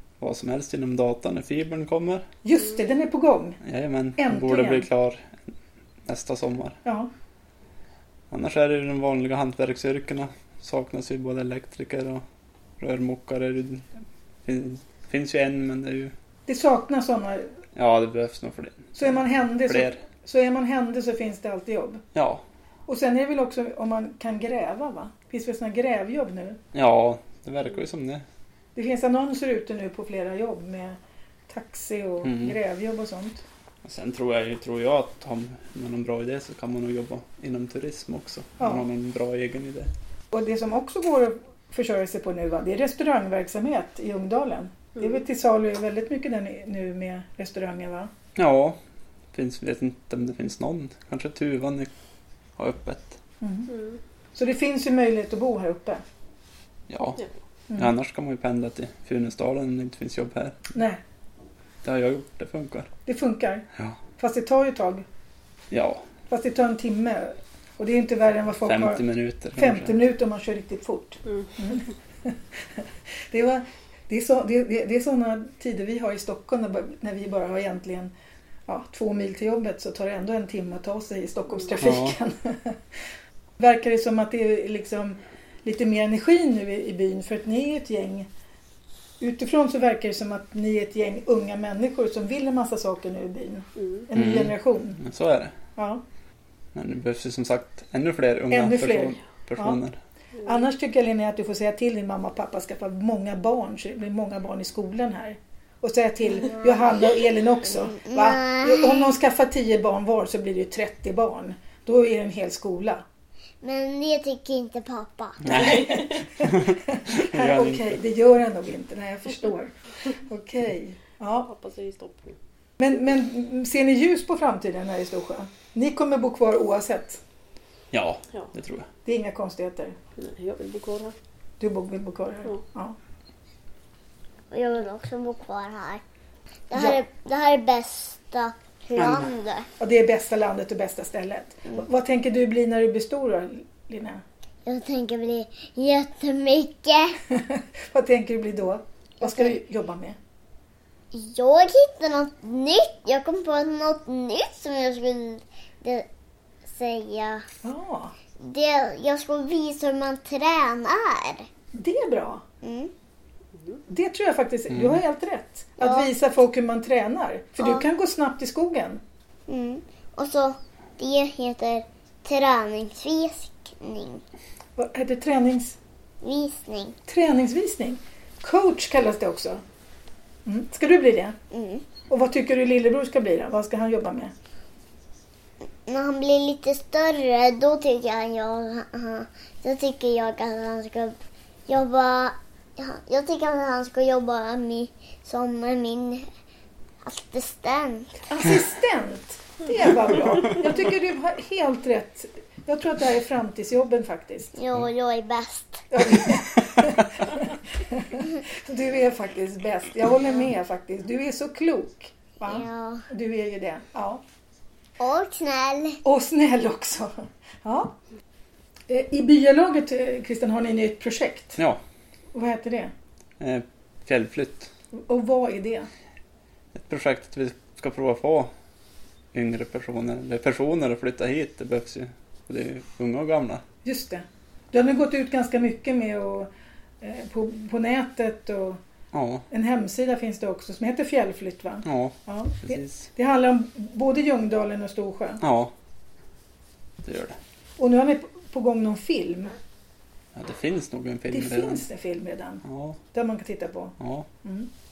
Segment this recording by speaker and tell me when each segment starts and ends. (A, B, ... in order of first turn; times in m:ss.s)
0:00.2-0:02.3 A
0:02.4-0:03.6 B
0:03.6-0:05.4 A
0:04.2-0:04.9 B
0:06.0-0:06.8 A
0:08.3-0:12.2 A
0:12.8-0:13.9 A
0:14.4-0:16.1 A
0:16.5-0:17.5 B
0:17.8-0:19.1 A
0:19.0-0:22.0 B
0:19.7-0:20.0 A
0:22.2-0:22.4 A
0:22.9-0:26.6 B
0:26.7-0:28.2 A
0:28.8-0:31.0 B
0:31.5-0:33.4 B
0:32.2-0:32.6 A
0:33.8-0:39.9 A
0:38.6-0:38.8 B
0:40.3-0:48.1 B
0:48.4-0:48.8 A
0:49.3-0:51.9 A
0:52.6-0:53.2 A
0:53.4-0:53.7 B
0:53.7-0:54.0 C
0:54.4-0:56.0 B
0:56.9-0:57.2 A
0:57.8-1:00.6 A
1:00.7-1:01.0 B
1:01.8-1:02.9 A
1:03.1-1:03.7 B
1:04.2-1:05.0 B
1:05.7-1:06.0 A
1:06.3-1:09.0 B
1:08.6-1:10.0 A
1:09.6-1:18.1 B
1:18.7-1:22.8 B
1:21.8-1:22.2 A
1:23.6-1:28.3 B
1:29.2-1:35.0 B
1:34.1-1:35.6 A
1:35.8-1:36.0 B
1:36.7-1:40.0 A
1:38.5-1:39.8 B
1:40.4-1:53.0 B
1:47.7-1:49.0 D
1:53.6-1:56.0 D
1:55.4-1:58.0 A
1:55.5-1:56.2 C
1:56.1-2:01.5 B
2:01.5-2:02.4 C
2:02.8-2:07.2 B
2:07.9-2:08.9 A
2:09.0-2:10.0 B
2:10.2-2:11.2 C
2:11.6-2:13.0 B
2:14.5-2:16.0 D
2:16.7-2:19.7 D
2:16.7-2:17.0 B
2:19.0-2:19.2 B
2:19.8-2:24.2 B
2:24.7-2:27.2 D
2:27.3-2:30.2 B
2:29.2-2:29.5 D
2:31.1-2:36.1 D
2:36.7-2:37.5 D
2:37.6-2:38.1 B
2:38.4-2:41.5 D
2:41.7-2:42.4 B
2:42.6-2:42.9 D
2:43.9-2:49.0 B
2:44.7-2:45.0 A
2:45.8-2:46.1 D
2:49.5-2:54.2 D
2:54.8-2:55.8 B
2:56.2-2:57.0 D
2:57.1-2:59.6 B
3:00.5-3:01.4 B
3:01.5-3:01.8 D
3:02.1-3:04.3 B
3:05.9-3:11.2 D
3:11.7-3:16.3 D
3:17.0-3:18.2 D
3:18.3-3:24.5 B
3:24.6-3:25.9 D
3:25.9-3:34.2 B
3:32.5-3:33.0 D
3:35.0-3:36.0 D
3:36.0-3:38.0 B
3:38.9-3:41.6 B
3:42.3-3:42.9 B
3:43.4-3:44.7 A
3:45.0-3:45.9 B
3:46.7-3:48.5 A
3:49.3-3:53.6 A
3:53.8-3:56.5 B
3:57.0-3:58.8 B
3:59.1-3:59.4 A
3:59.5-4:05.4 B
4:01.8-4:03.1 A
4:05.4-4:05.7 A
4:07.0-4:07.4 A
4:07.8-4:09.5 B
4:10.4-4:11.8 A
4:11.3-4:14.7 B
4:12.6-4:13.0 A
4:14.0-4:14.3 A